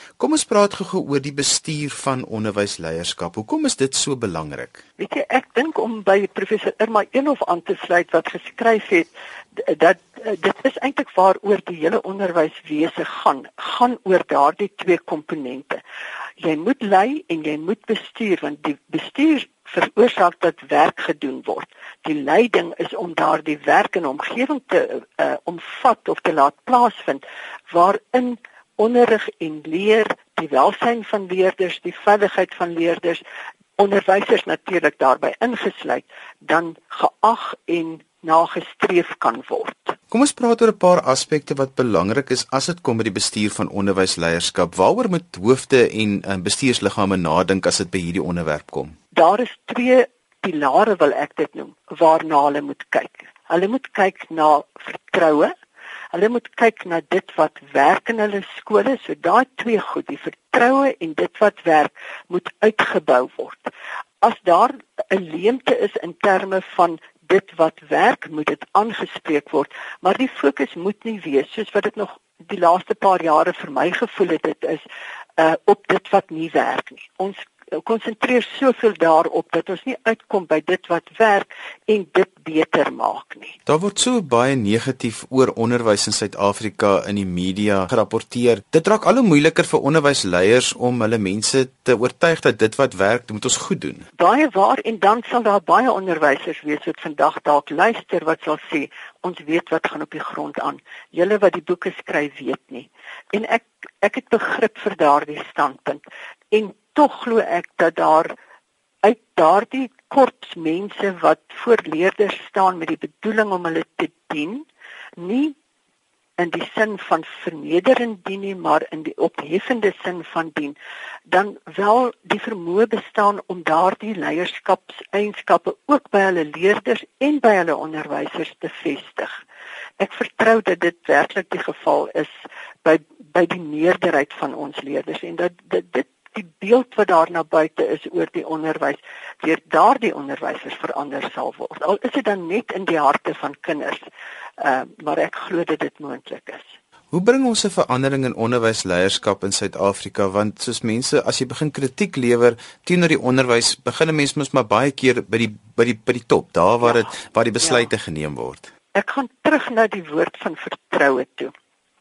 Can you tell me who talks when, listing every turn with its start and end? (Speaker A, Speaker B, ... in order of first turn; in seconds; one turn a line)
Speaker A: 0.2-4.8
Speaker B: 5.0-15.8
Speaker B: 16.4-33.2
Speaker B: 33.8-40.0
Speaker A: 40.1-49.0
Speaker B: 49.1-55.5
Speaker B: 56.1-63.7
Speaker B: 64.2-74.8
Speaker B: 75.4-83.6
Speaker A: 83.7-94.0
Speaker B: 94.2-108.3
Speaker B: 109.0-114.6
Speaker B: 115.2-115.5
Speaker B: 116.4-120.8
Speaker B: 121.3-129.3
Speaker B: 130.0-132.3
Speaker B: 132.8-144.0
Speaker B: 144.6-146.7
Speaker A: 147.1-158.7
Speaker B: 158.9-161.5